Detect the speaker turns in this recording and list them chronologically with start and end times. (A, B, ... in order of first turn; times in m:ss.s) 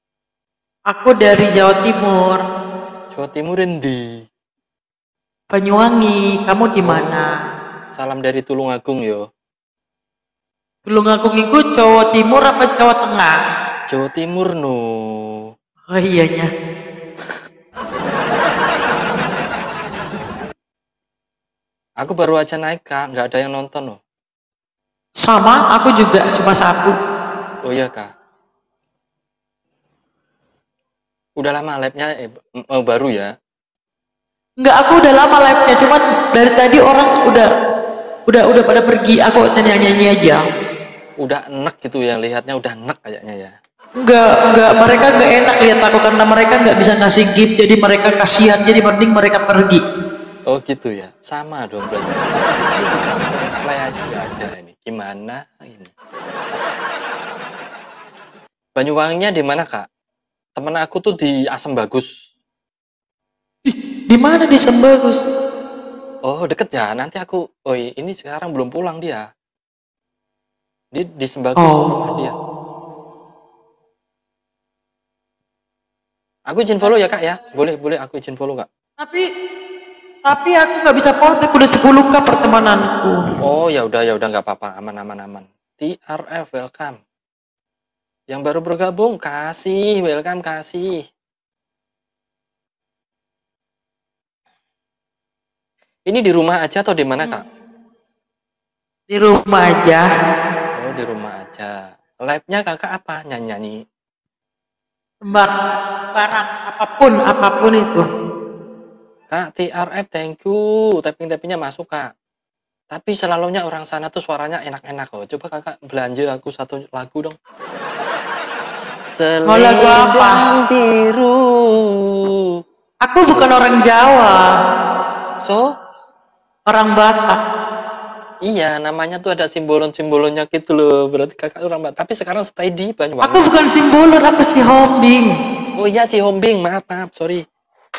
0:00.9-0:02.4 A
0:03.1-0:04.1 B
0:05.5-0:07.3 A
0:06.8-0:07.2 B
0:07.9-0:09.3 B
0:10.9-0:13.3 A
0:13.9-0:14.8 B
0:15.9-0:16.5 A
0:22.0-0:24.0 B
0:25.2-0:26.9 A
0:27.6-0:28.1 B
0:31.4-0:33.3 B
0:34.6-0:37.5 A
0:38.3-0:40.4 A
0:41.2-0:43.5 B
0:44.0-0:49.8 A
0:50.5-0:55.9 B
0:58.8-0:59.9 B
1:00.6-1:02.1 B
1:03.7-1:05.2 A
1:06.3-1:09.3 B
1:10.9-1:12.4 B
1:11.6-1:11.9 A
1:16.5-1:18.7 B
1:20.3-1:23.2 A
1:23.4-1:27.0 B
1:28.3-1:31.0 B
1:36.1-1:37.4 B
1:39.1-1:40.0 A
1:40.8-1:43.8 B
1:45.3-1:45.5 A
1:46.1-1:48.0 A
1:49.3-1:52.1 B
1:52.9-1:57.4 B
1:59.1-2:01.4 B
1:59.5-2:00.4 A
2:03.0-2:04.4 A
2:03.3-2:03.6 B
2:05.4-2:05.7 B
2:06.7-2:07.4 A
2:08.4-2:13.4 B
2:13.2-2:15.3 A
2:15.8-2:17.4 B